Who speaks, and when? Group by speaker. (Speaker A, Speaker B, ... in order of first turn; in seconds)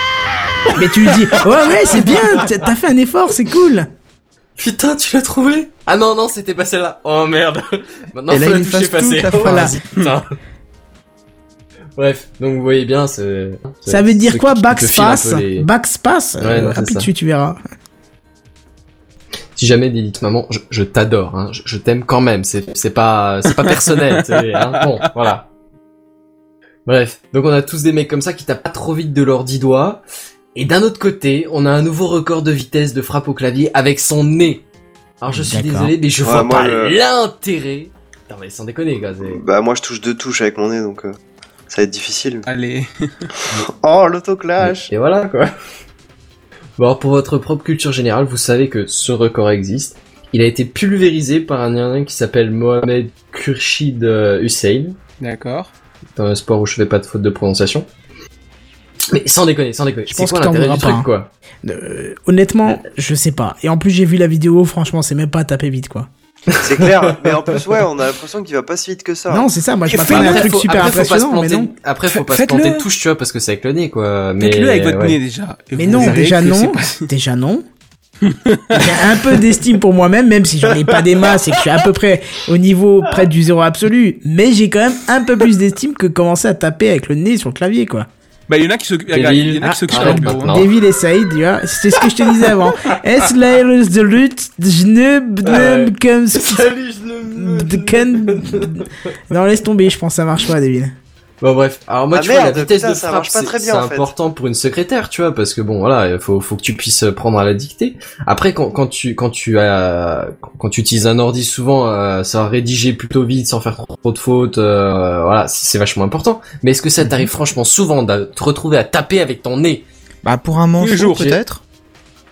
Speaker A: 0.7-3.9, 9.4-9.7, 13.9-17.6, 35.3-35.9, 60.1-61.1, 61.6-66.1, 69.3-71.7, 75.8-77.7, 78.7-88.1, 89.6-96.7, 97.3-101.0
Speaker B: 4.6-10.3, 12.0-15.7, 16.4-17.1, 19.6-25.5, 26.9-30.0, 30.6-34.6, 35.2-39.4, 44.6-45.5, 46.8-55.0, 56.2-57.9, 59.1-61.3, 66.5-67.6, 70.0-75.2, 75.9-76.2, 89.1-90.7, 95.4-98.9, 101.4-119.8, 121.1-121.4
Speaker C: 8.3-9.8, 117.0-117.3, 120.2-121.6
Speaker D: 36.2-37.0, 39.2-41.1, 41.7-42.5, 43.7-44.9, 66.6-69.5, 102.1-104.1
Speaker E: 42.5-43.3, 55.2-55.7, 69.9-70.8, 72.1-72.9, 74.4-77.1, 78.3-78.9, 88.5-90.5, 120.8-121.3